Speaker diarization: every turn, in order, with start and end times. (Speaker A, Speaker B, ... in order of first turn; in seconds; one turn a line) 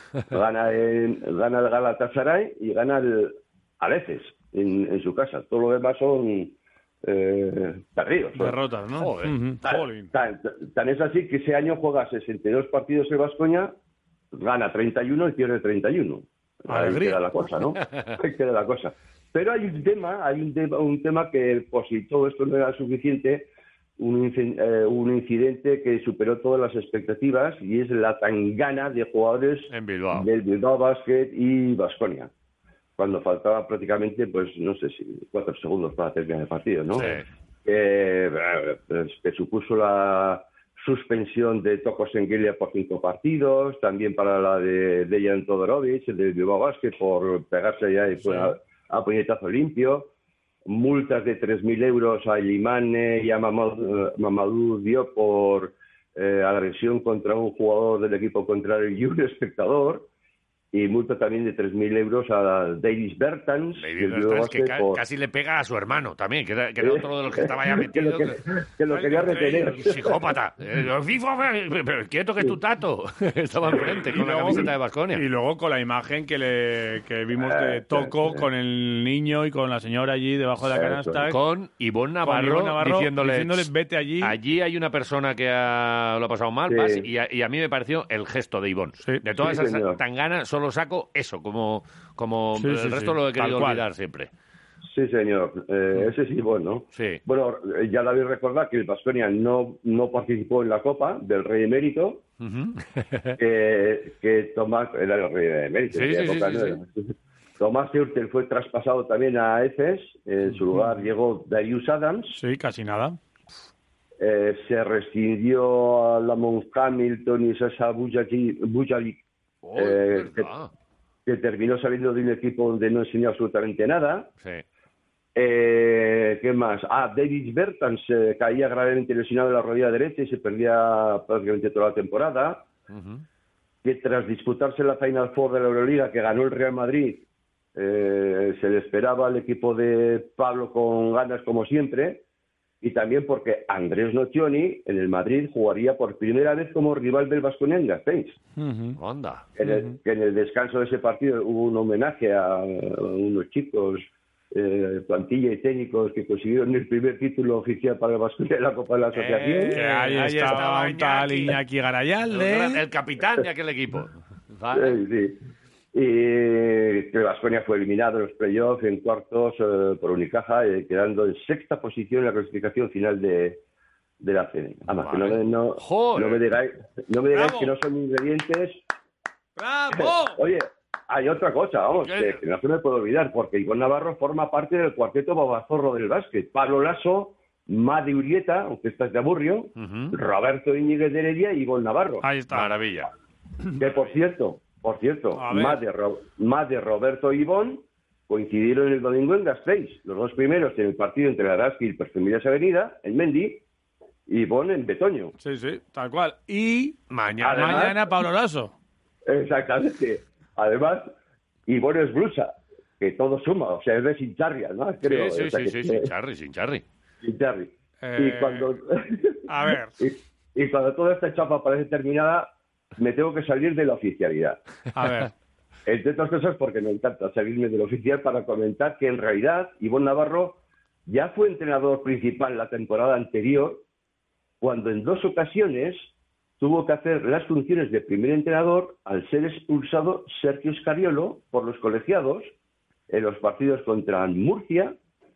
Speaker A: 0.3-8.6
Speaker B: 8.3-10.1
Speaker C: 9.0-9.3
Speaker A: 9.6-13.7
Speaker A: 14.3-32.3
Speaker B: 16.7-17.3
Speaker C: 29.7-30.3
Speaker A: 33.0-50.1
Speaker C: 36.9-37.2
Speaker A: 50.6-60.0
Speaker A: 60.7-65.0
Speaker C: 63.8-68.4
Speaker A: 66.8-70.2
Speaker B: 68.9-69.9
Speaker C: 69.1-75.2
Speaker B: 74.1-81.4
Speaker A: 77.4-78.5
Speaker A: 80.7-81.3
Speaker C: 81.3-83.7
Speaker B: 82.2-84.4
Speaker C: 84.2-94.3
Speaker A: 86.7-87.0
Speaker A: 89.4-90.0
Speaker B: 92.5-93.8
Speaker A: 94.9-102.2
Speaker C: 96.9-97.2
Speaker C: 102.4-103.4
Speaker A: 103.4-112.4
Speaker C: 105.9-106.8
Speaker B: 112.3-113.2
Speaker A: 114.2-119.2
Speaker C: 119.6-120.7
Speaker A: 119.7-120.5
Speaker A: 121.2-124.3
Speaker A: 125.3-132.7
Speaker C: 132.9-133.2
Speaker A: 133.8-137.2
Speaker A: 137.7-142.2
Speaker A: 142.8-148.4
Speaker B: 148.6-149.0
Speaker C: 149.0-149.4
Speaker A: 149.6-159.8
Speaker B: 149.6-150.0
Speaker B: 159.2-162.8
Speaker C: 159.2-161.6
Speaker C: 162.3-165.0
Speaker A: 164.7-165.4
Speaker A: 165.9-173.6
Speaker A: 174.2-178.8
Speaker C: 174.9-176.4
Speaker B: 177.3-177.7
Speaker B: 179.6-180.4
Speaker A: 179.9-192.2
Speaker C: 182.0-182.4
Speaker C: 189.8-190.1
Speaker B: 192.2-192.7
Speaker C: 192.5-193.1
Speaker A: 193.8-203.6
Speaker C: 193.8-194.1
Speaker B: 195.3-195.8
Speaker A: 204.3-205.3
Speaker B: 205.4-208.7
Speaker C: 207.1-207.9
Speaker A: 207.4-208.0
Speaker A: 209.3-211.1
Speaker A: 211.7-216.1
Speaker C: 215.0-216.8
Speaker A: 217.2-224.6
Speaker B: 218.0-218.7
Speaker B: 219.5-219.9
Speaker B: 224.9-225.3
Speaker A: 225.8-233.8
Speaker A: 234.6-236.0
Speaker A: 236.6-242.5
Speaker A: 243.1-244.9